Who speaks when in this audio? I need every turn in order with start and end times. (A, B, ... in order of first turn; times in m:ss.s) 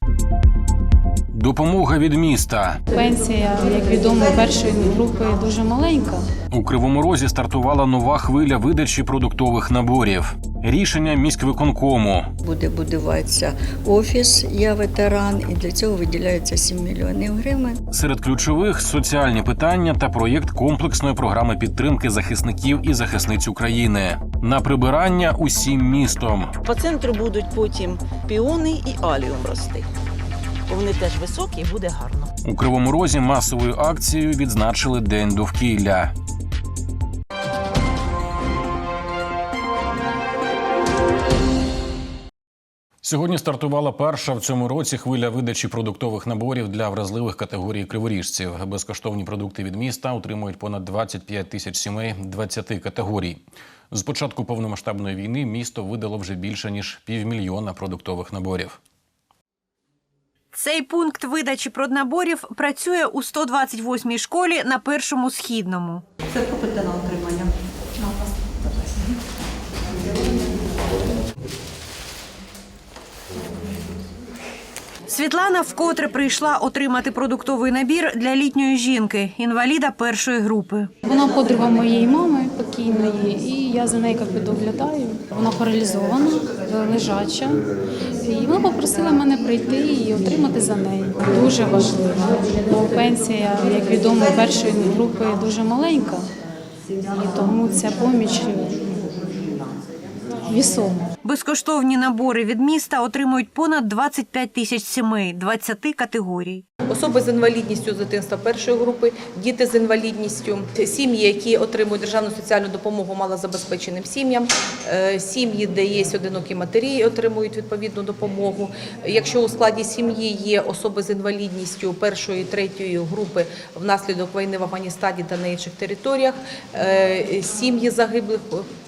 0:01.3-0:02.8 A
0:02.9-0:06.3 B
0:06.5-0:12.3 A
0:12.4-0:17.8 C
0:17.9-0:26.5 A
0:26.6-0:29.8 D
0:30.7-0:32.3 D
0:32.4-0:36.1 A
0:43.0-0:58.8 A
1:00.5-1:06.0 E
1:15.1-1:20.9 E
1:21.0-1:27.6 B
1:28.2-1:36.3 B
1:37.1-1:38.9 B
1:40.5-1:41.1 B
1:41.2-1:46.6 E
1:46.9-2:08.7 F